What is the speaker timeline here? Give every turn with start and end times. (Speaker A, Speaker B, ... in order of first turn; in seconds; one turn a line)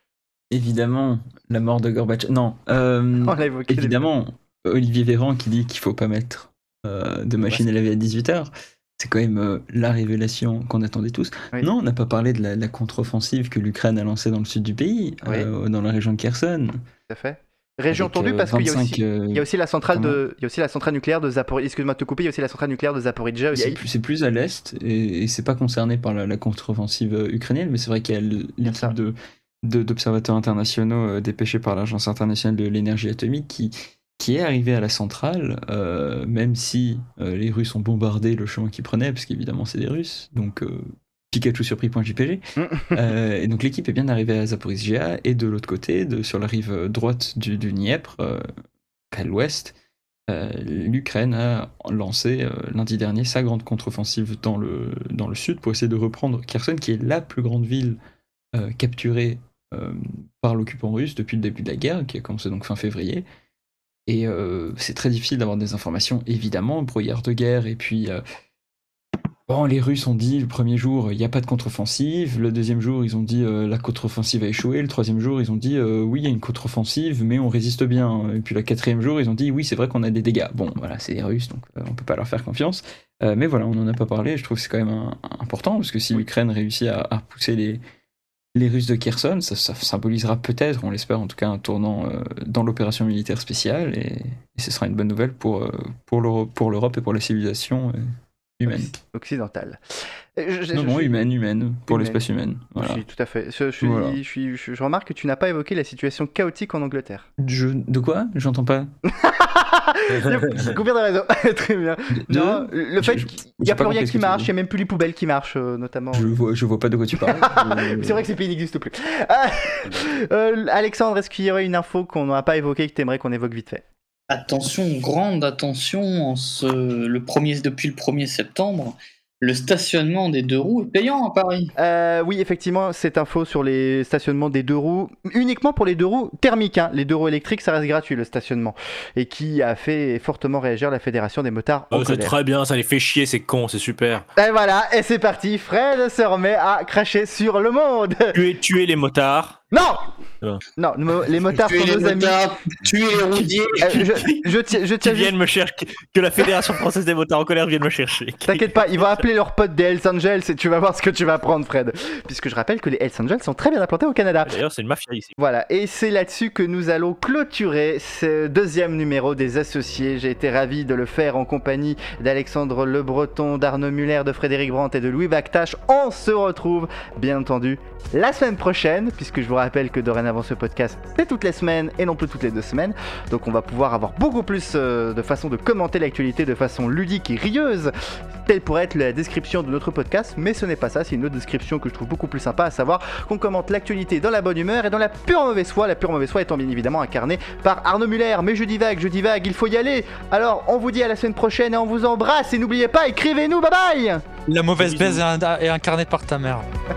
Speaker A: 0.5-16.8
Speaker B: 3.2-4.0
Speaker B: 17.1-23.8
Speaker A: 17.9-20.2
Speaker A: 23.5-48.5
Speaker B: 28.6-28.9
Speaker B: 42.6-43.0
Speaker A: 49.1-49.7
Speaker A: 50.3-58.0
Speaker A: 58.5-63.2
Speaker A: 64.1-68.2
Speaker A: 69.5-87.8
Speaker A: 88.5-98.0
Speaker A: 98.6-98.9
Speaker B: 98.7-99.8
Speaker B: 100.3-101.2
Speaker A: 100.7-103.0
Speaker B: 101.9-102.2
Speaker B: 102.8-107.3
Speaker A: 103.8-104.2
Speaker A: 107.4-108.9
Speaker B: 109.1-116.3
Speaker A: 112.1-114.5
Speaker A: 116.1-118.2
Speaker B: 117.4-123.8
Speaker C: 124.3-131.7
Speaker B: 131.8-142.3
Speaker D: 141.9-144.3
Speaker B: 144.4-148.4
Speaker D: 148.3-149.6
Speaker B: 149.7-150.1
Speaker B: 150.8-152.5
Speaker C: 151.6-154.2
Speaker D: 153.1-154.1
Speaker B: 153.8-155.3
Speaker D: 155.0-159.1
Speaker B: 158.5-164.5
Speaker D: 164.4-165.4
Speaker B: 165.4-204.2
Speaker E: 204.5-206.7
Speaker D: 204.8-205.2